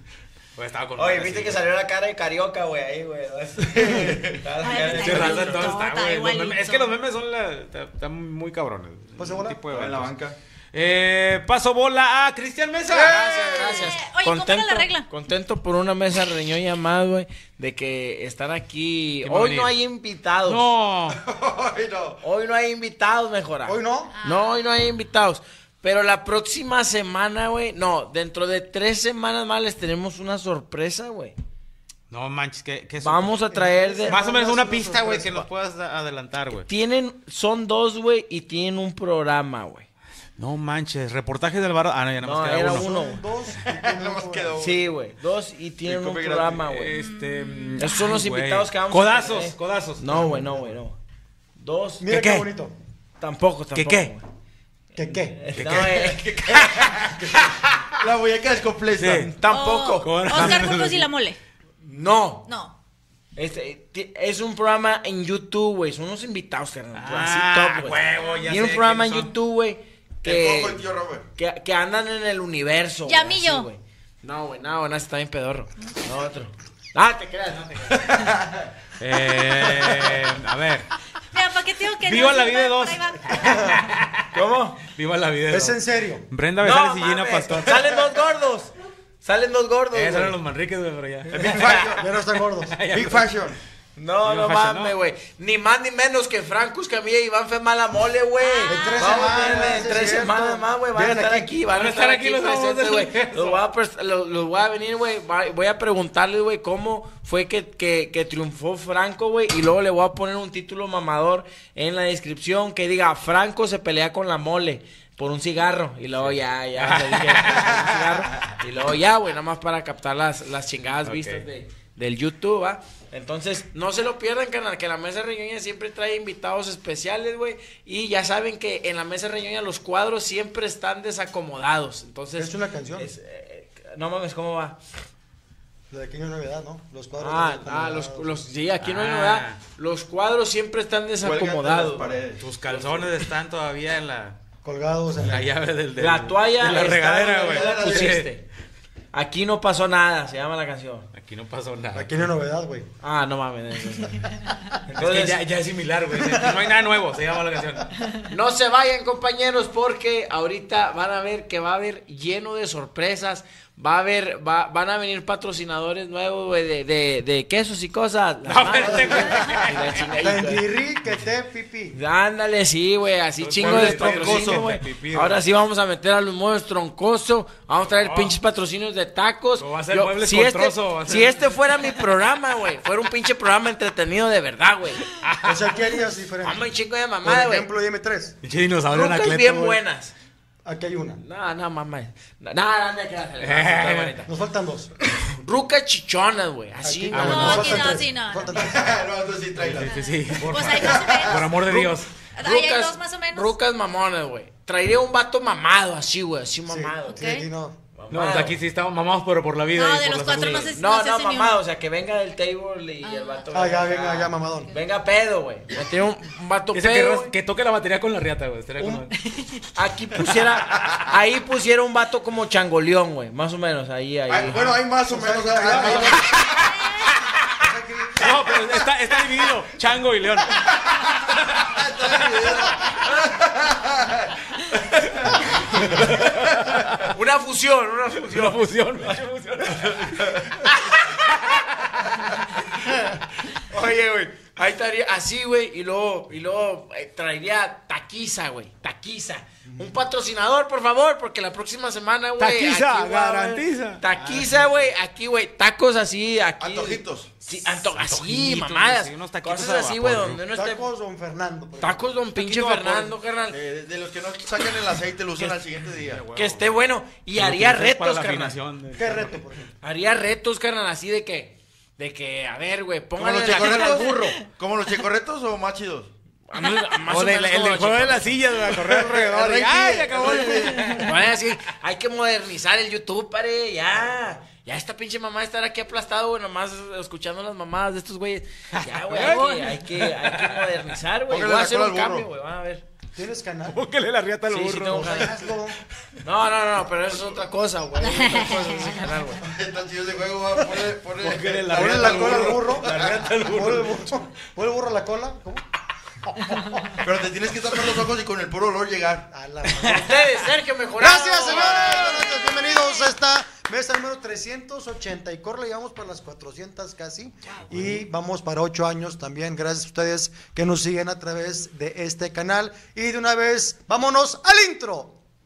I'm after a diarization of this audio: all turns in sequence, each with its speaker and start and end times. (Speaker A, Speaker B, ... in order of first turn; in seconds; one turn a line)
Speaker A: 0.6-1.7
Speaker B: 1.0-5.8
Speaker C: 3.7-4.5
Speaker D: 4.6-7.0
Speaker A: 4.8-10.1
Speaker E: 9.2-9.7
Speaker C: 9.7-10.4
Speaker A: 10.7-13.9
Speaker B: 12.9-20.7
Speaker C: 13.1-13.8
Speaker D: 13.7-15.1
Speaker A: 19.2-19.7
Speaker A: 20.4-21.2
Speaker C: 21.1-22.2
Speaker B: 22.2-31.4
Speaker E: 23.7-24.1
Speaker D: 24.1-24.6
Speaker A: 32.1-33.4
Speaker B: 33.0-34.2
Speaker E: 33.5-35.5
Speaker A: 34.1-36.7
Speaker B: 36.7-39.9
Speaker A: 40.4-42.9
Speaker B: 42.2-43.2
Speaker E: 42.6-44.6
Speaker C: 43.6-45.0
Speaker B: 44.6-47.0
Speaker C: 45.9-46.7
Speaker A: 46.6-50.4
Speaker D: 47.0-48.1
Speaker B: 47.8-51.0
Speaker B: 51.6-52.1
Speaker E: 52.0-52.8
Speaker A: 52.1-52.5
Speaker B: 53.2-54.2
Speaker A: 53.7-54.1
Speaker E: 55.0-55.4
Speaker B: 55.1-57.5
Speaker A: 55.5-56.2
Speaker C: 56.1-57.2
Speaker C: 58.0-59.3
Speaker A: 59.0-59.3
Speaker B: 59.2-60.7
Speaker D: 59.5-61.4
Speaker A: 60.0-61.1
Speaker B: 61.8-62.5
Speaker D: 62.5-62.7
Speaker B: 63.4-78.3
Speaker A: 66.9-69.3
Speaker D: 68.2-68.5
Speaker C: 70.2-71.3
Speaker D: 73.0-73.7
Speaker C: 78.1-78.7
Speaker A: 79.0-80.9
Speaker D: 81.3-83.9
Speaker A: 82.0-84.3
Speaker B: 84.3-84.8
Speaker A: 84.9-85.8
Speaker E: 85.5-86.3
Speaker A: 86.3-87.9
Speaker B: 86.6-90.4
Speaker A: 89.9-91.5
Speaker C: 91.3-92.1
Speaker B: 91.4-92.0
Speaker E: 92.0-92.8
Speaker A: 92.7-93.3
Speaker C: 92.8-93.6
Speaker B: 94.0-134.8
Speaker A: 94.2-95.0
Speaker D: 98.4-99.5
Speaker E: 98.7-101.5
Speaker A: 101.7-103.6
Speaker A: 116.2-118.6
Speaker A: 121.0-121.5
Speaker E: 132.4-133.1
Speaker E: 135.9-138.4
Speaker B: 137.2-143.2
Speaker A: 138.8-139.6
Speaker C: 141.2-142.5
Speaker A: 142.4-144.4
Speaker E: 144.6-145.5
Speaker A: 145.2-148.3
Speaker B: 146.0-148.4
Speaker C: 147.5-148.2
Speaker B: 149.1-151.1
Speaker A: 151.1-152.2
Speaker E: 151.9-152.9
Speaker B: 153.0-154.3
Speaker A: 154.9-158.2
Speaker B: 155.0-155.4
Speaker B: 158.3-170.7
Speaker A: 168.4-170.1
Speaker E: 168.8-169.4
Speaker E: 170.2-172.0
Speaker B: 171.9-185.1
Speaker A: 173.4-175.4
Speaker C: 173.6-174.7
Speaker A: 177.9-178.4
Speaker A: 179.6-182.0
Speaker A: 185.2-185.7
Speaker E: 185.4-186.7
Speaker B: 186.4-187.7
Speaker E: 187.2-188.4
Speaker A: 188.4-189.8
Speaker B: 188.9-190.1
Speaker E: 190.7-191.2
Speaker B: 191.2-194.3
Speaker A: 193.4-194.1
Speaker E: 194.3-194.9
Speaker B: 195.4-198.0
Speaker E: 196.8-199.0
Speaker A: 197.1-198.0
Speaker D: 197.2-198.7
Speaker C: 198.6-201.4
Speaker A: 199.6-202.1
Speaker D: 199.8-201.5
Speaker B: 201.5-207.3
Speaker D: 202.3-203.6
Speaker E: 206.7-207.8
Speaker D: 207.1-207.5
Speaker B: 208.0-208.6
Speaker A: 208.1-210.8
Speaker D: 209.8-211.6
Speaker B: 210.7-217.3
Speaker D: 213.0-213.4
Speaker E: 213.5-214.8
Speaker A: 216.7-219.1
Speaker E: 218.8-219.1
Speaker B: 219.8-224.7
Speaker C: 224.3-226.4
Speaker E: 225.0-226.3
Speaker B: 225.7-226.3
Speaker E: 227.6-228.6
Speaker A: 228.2-231.7
Speaker C: 231.7-234.3
Speaker A: 235.2-237.1
Speaker B: 237.1-240.7
Speaker A: 238.2-240.7
Speaker A: 241.3-241.9
Speaker B: 243.6-260.8
Speaker A: 252.4-254.9
Speaker C: 256.6-257.3
Speaker A: 257.6-260.4
Speaker E: 260.5-262.2
Speaker B: 261.8-263.6
Speaker A: 262.4-263.1
Speaker C: 263.5-266.3
Speaker A: 266.0-266.8
Speaker B: 266.4-268.6
Speaker A: 267.4-269.4
Speaker E: 269.0-269.7
Speaker B: 269.8-274.5
Speaker C: 273.2-276.1
Speaker B: 276.5-278.5
Speaker A: 276.6-281.3
Speaker C: 278.7-281.0
Speaker B: 280.9-292.9
Speaker A: 288.8-290.8
Speaker D: 289.2-289.7
Speaker C: 291.3-292.3
Speaker E: 293.2-293.8
Speaker A: 293.7-295.3
Speaker B: 294.5-295.4
Speaker E: 294.9-295.8
Speaker B: 296.2-299.5
Speaker D: 298.0-299.0
Speaker C: 299.4-303.3
Speaker A: 301.2-304.1
Speaker E: 301.7-305.6
Speaker C: 307.0-309.3
Speaker E: 309.3-310.2
Speaker B: 309.8-312.3
Speaker E: 311.0-325.2